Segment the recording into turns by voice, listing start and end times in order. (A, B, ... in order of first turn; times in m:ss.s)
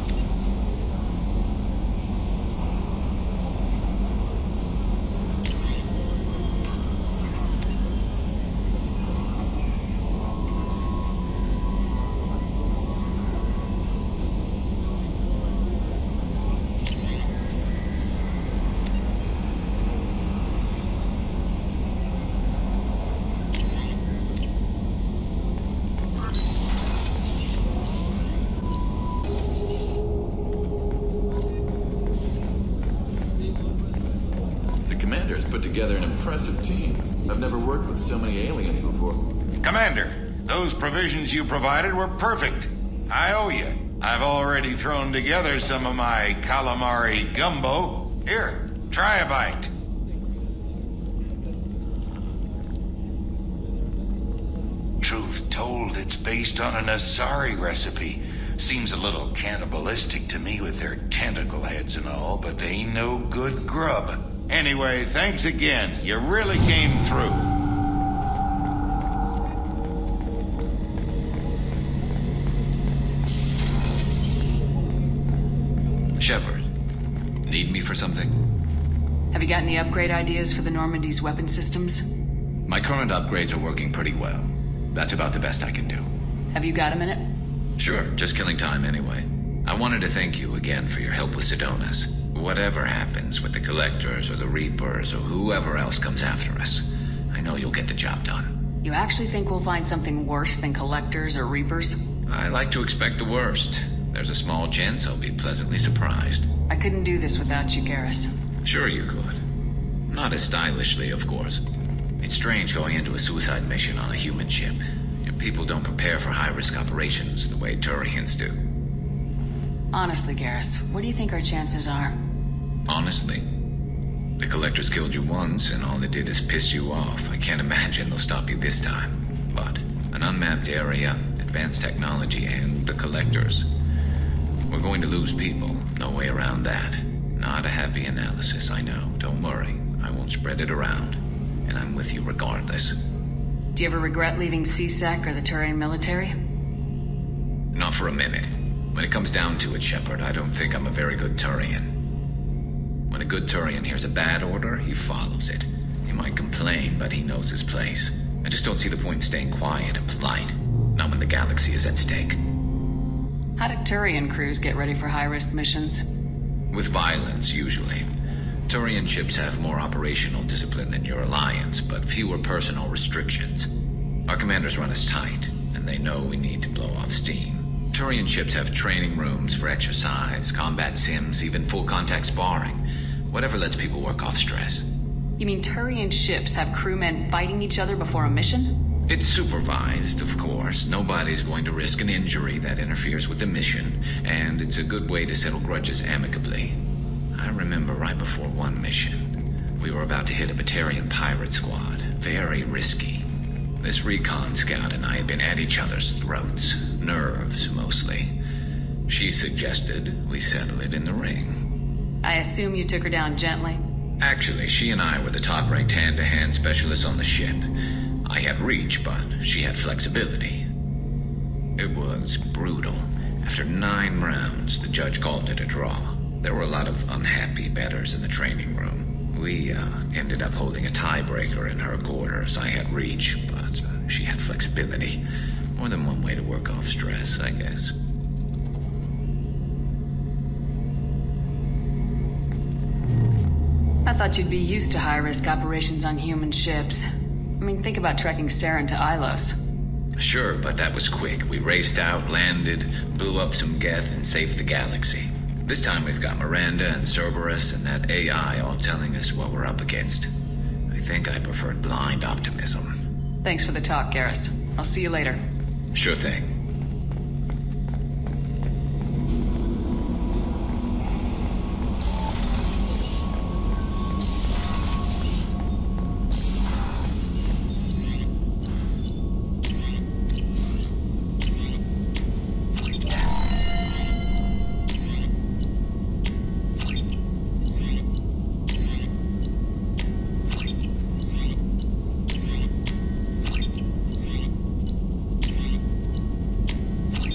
0:34.9-0:39.2 A
0:39.6-0:49.7 B
0:55.0-1:07.5 B
1:16.2-1:16.7 C
1:17.4-1:18.4 C
1:19.3-1:22.1 D
1:22.7-1:26.1 C
1:26.5-1:27.3 D
1:27.8-1:38.6 C
1:38.8-1:42.0 D
1:42.3-1:46.5 C
1:46.7-1:48.3 D
1:48.6-1:49.4 C
1:50.1-1:51.6 C
1:52.2-1:58.6 C
1:59.9-2:02.2 D
2:02.9-2:03.5 C
2:04.4-2:13.7 C
2:14.7-2:23.0 C
2:23.8-2:26.4 D
2:27.7-2:32.0 C
2:33.1-2:42.4 C
2:43.6-2:46.1 D
2:46.7-2:48.1 C
2:48.7-2:53.7 C
2:54.3-3:04.9 C
3:05.4-3:08.8 D
3:09.1-3:16.8 C
3:17.3-3:23.3 C
3:23.8-3:28.4 C
3:29.1-3:31.6 C
3:32.2-3:33.8 D
3:34.2-3:37.7 C
3:38.3-3:40.7 C
3:41.8-3:55.2 C
3:55.8-3:58.0 C
4:04.0-4:07.1 D
4:07.6-4:09.6 D
4:10.2-4:20.3 C
4:20.9-4:23.0 C
4:23.4-4:25.4 D
4:25.9-4:26.6 C